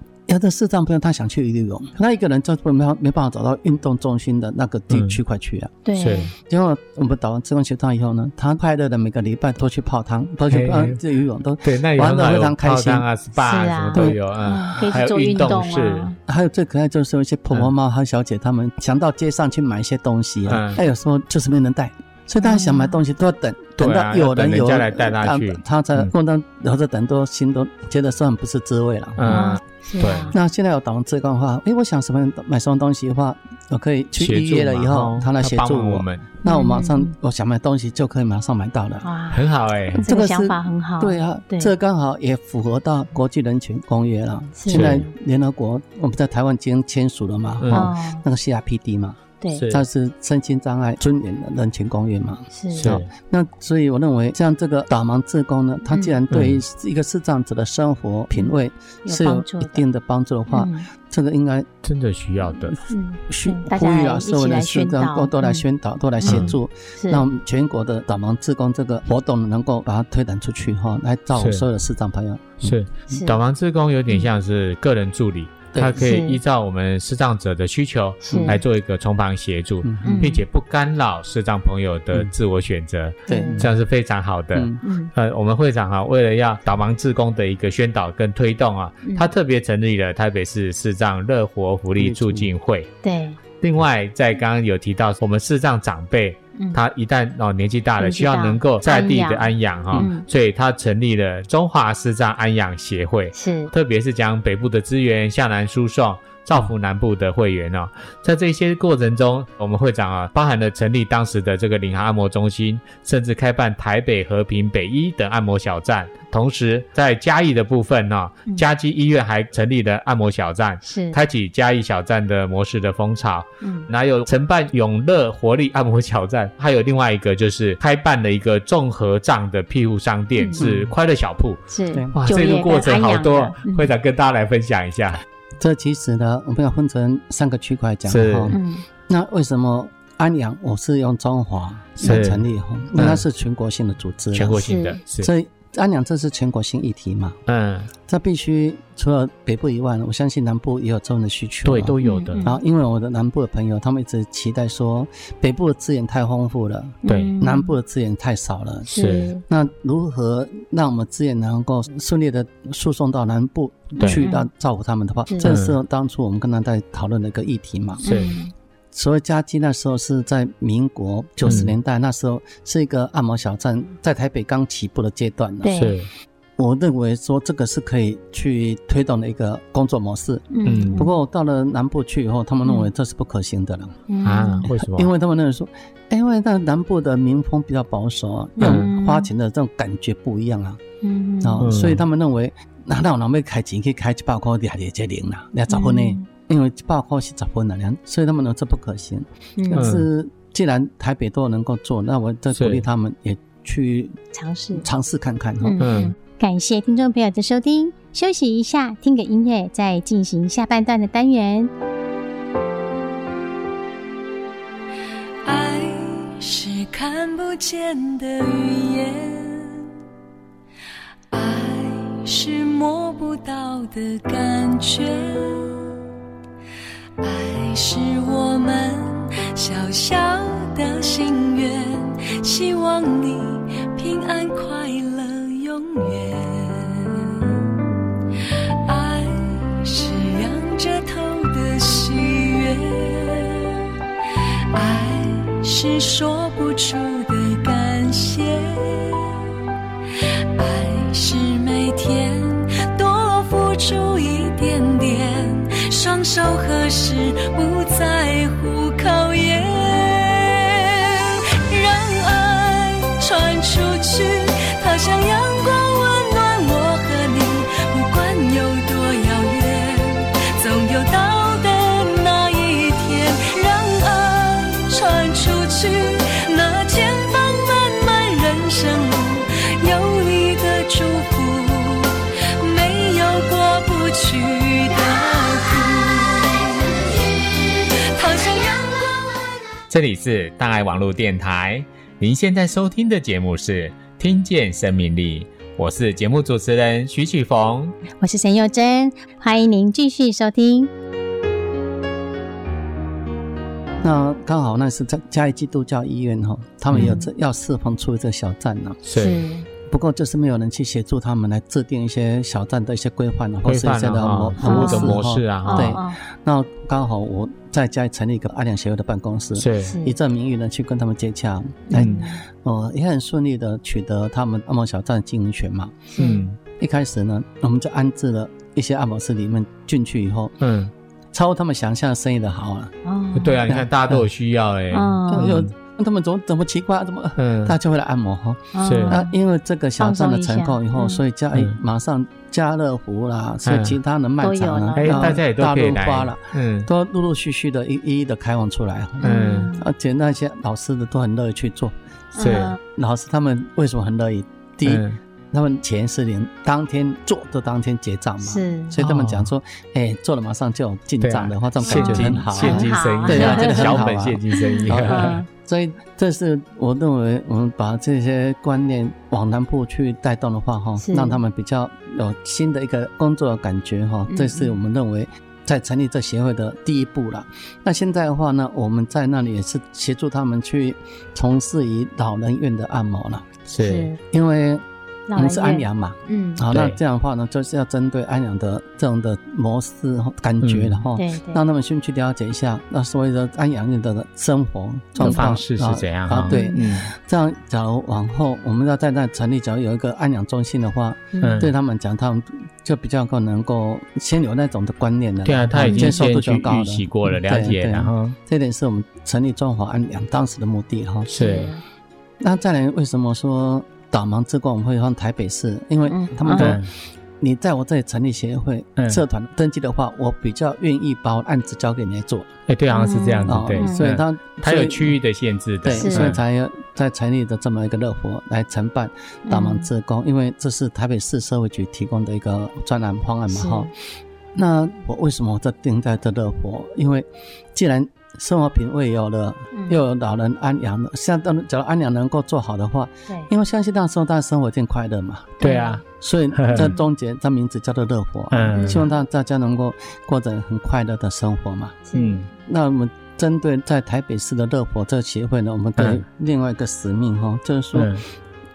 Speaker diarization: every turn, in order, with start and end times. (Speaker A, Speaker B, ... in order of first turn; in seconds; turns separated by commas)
Speaker A: 0.3-5.8, Speaker B: 4.9-5.2, Speaker C: 5.8-6.3, Speaker B: 6.0-6.3, Speaker A: 6.4-13.1, Speaker B: 10.5-11.0, Speaker B: 11.6-16.1, Speaker C: 13.4-16.2, Speaker A: 16.3-29.5, Speaker B: 20.5-20.8, Speaker C: 22.4-23.0, Speaker B: 23.8-26.1, Speaker B: 29.2-30.3, Speaker C: 29.3-30.4, Speaker A: 30.3-39.1, Speaker B: 34.2-36.3, Speaker C: 36.4-37.1, Speaker C: 39.0-39.4, Speaker B: 39.3-40.1, Speaker C: 40.0-41.7, Speaker A: 40.0-61.7, Speaker C: 44.6-45.1, Speaker B: 44.7-45.0, Speaker B: 47.6-47.9, Speaker C: 47.7-48.2, Speaker B: 49.5-49.9, Speaker C: 52.5-53.0, Speaker B: 52.8-53.1, Speaker C: 55.9-56.2, Speaker B: 56.3-56.6, Speaker C: 59.0-59.8, Speaker C: 60.5-60.9, Speaker B: 61.8-62.8, Speaker C: 62.9-65.6, Speaker A: 63.3-72.8, Speaker C: 66.2-67.2, Speaker B: 66.2-66.5, Speaker B: 71.3-71.7, Speaker B: 72.6-92.9, Speaker C: 73.1-73.4, Speaker A: 75.7-76.1, Speaker C: 76.0-76.4, Speaker C: 78.2-78.6, Speaker A: 78.3-78.6, Speaker A: 79.8-80.3, Speaker C: 80.0-80.4, Speaker C: 83.3-83.7, Speaker A: 83.3-83.7, Speaker A: 84.5-84.8, Speaker C: 84.8-85.1, Speaker C: 89.0-89.3, Speaker A: 92.0-92.5, Speaker C: 93.0-93.4, Speaker B: 93.6-131.6, Speaker C: 98.0-100.3, Speaker C: 103.3-103.7, Speaker C: 120.8-121.2, Speaker C: 123.6-123.9, Speaker C: 130.4-130.6, Speaker A: 130.6-130.9, Speaker C: 131.7-133.9, Speaker A: 131.9-132.2, Speaker B: 132.2-135.2, Speaker A: 135.6-144.6, Speaker B: 138.1-138.6, Speaker C: 138.5-138.8, Speaker B: 142.0-143.2, Speaker B: 144.3-145.3, Speaker C: 144.6-145.0, Speaker A: 145.2-147.4, Speaker B: 147.5-147.9, Speaker A: 148.1-168.1, Speaker B: 151.7-152.5, Speaker C: 152.0-152.6, Speaker C: 157.0-157.7, Speaker B: 157.1-157.3, Speaker C: 158.9-159.4, Speaker B: 159.0-159.3, Speaker B: 164.0-164.2, Speaker C: 164.0-164.5, Speaker B: 165.4-165.8, Speaker C: 168.0-168.5, Speaker B: 168.1-168.3, Speaker A: 168.9-175.8, Speaker B: 171.4-171.7, Speaker C: 175.6-175.9, Speaker B: 175.8-176.1, Speaker A: 176.6-184.0, Speaker C: 180.5-181.1, Speaker B: 180.7-181.1, Speaker C: 184.1-184.7, Speaker B: 184.2-185.1, Speaker A: 184.6-190.8, Speaker C: 188.6-189.3, Speaker B: 188.6-188.9, Speaker C: 191.0-191.7, Speaker A: 191.4-204.2, Speaker B: 191.6-192.0, Speaker C: 195.7-196.2, Speaker C: 199.6-199.9, Speaker B: 199.7-200.1, Speaker B: 202.6-202.8, Speaker C: 204.3-204.8, Speaker A: 204.8-205.8, Speaker C: 205.6-211.7, Speaker B: 205.8-206.1, Speaker D: 215.4-219.9, Speaker D: 221.3-225.8, Speaker D: 227.2-237.6, Speaker D: 238.4-243.8, Speaker D: 244.7-249.5, Speaker D: 250.1-287.1, Speaker D: 287.6-289.1, Speaker B: 289.9-298.0, Speaker C: 298.2-300.9, Speaker A: 304.0-309.0, Speaker B: 306.9-307.2, Speaker C: 306.9-307.3, Speaker B: 309.1-309.4, Speaker C: 309.1-309.7, Speaker A: 309.9-326.1, Speaker B: 313.7-316.0, Speaker C: 314.6-316.2, Speaker B: 319.6-320.0, Speaker C: 319.8-320.2, Speaker C: 321.9-322.4, Speaker B: 321.9-322.2, Speaker C: 326.1-326.5, Speaker B: 326.2-326.6, Speaker A: 326.6-330.6, Speaker B: 330.6-330.9, Speaker A: 331.3-332.9, Speaker C: 333.1-333.7, Speaker B: 333.4-335.7, Speaker A: 333.7-334.3, Speaker C: 334.9-335.6, Speaker A: 335.3-352.0, Speaker B: 337.4-337.8, Speaker C: 338.7-339.3, Speaker B: 338.8-339.2, Speaker C: 340.0-341.2, Speaker B: 343.6-344.0, Speaker C: 344.4-345.4, Speaker B: 345.0-346.9, Speaker B: 349.2-349.7, Speaker C: 349.2-349.9, Speaker C: 352.4-352.8, Speaker B: 352.4-352.8, Speaker A: 352.8-383.5, Speaker B: 354.9-355.2, Speaker C: 358.4-358.9, Speaker B: 359.0-359.5, Speaker B: 361.2-365.4, Speaker C: 361.9-365.5, Speaker C: 371.0-371.4, Speaker C: 374.3-374.8, Speaker B: 383.7-384.1, Speaker C: 383.8-384.2, Speaker A: 384.2-384.8, Speaker C: 385.3-386.6, Speaker A: 385.4-411.3, Speaker B: 386.7-387.0, Speaker B: 390.6-391.0, Speaker C: 391.1-391.6, Speaker C: 395.2-395.5, Speaker B: 395.2-397.1, Speaker C: 396.5-396.8, Speaker C: 401.3-401.7, Speaker B: 401.4-401.7, Speaker B: 405.4-408.4, Speaker C: 405.8-406.2, Speaker B: 411.3-411.7, Speaker C: 411.3-411.8, Speaker A: 412.4-422.5, Speaker C: 416.1-416.8, Speaker B: 416.5-416.9, Speaker B: 419.0-419.2, Speaker B: 422.7-426.4, Speaker C: 422.9-424.0, Speaker A: 423.5-425.2, Speaker A: 425.8-433.9, Speaker C: 425.9-426.3, Speaker C: 429.5-429.9, Speaker C: 433.5-433.9, Speaker A: 434.6-445.6, Speaker C: 439.7-440.0, Speaker C: 445.6-446.0, Speaker B: 445.6-446.0, Speaker A: 446.1-452.1, Speaker B: 446.5-446.9, Speaker B: 448.5-449.1, Speaker C: 448.7-449.2, Speaker C: 452.1-452.5, Speaker B: 452.1-452.5, Speaker A: 452.6-458.2, Speaker B: 456.0-456.2, Speaker B: 457.9-458.2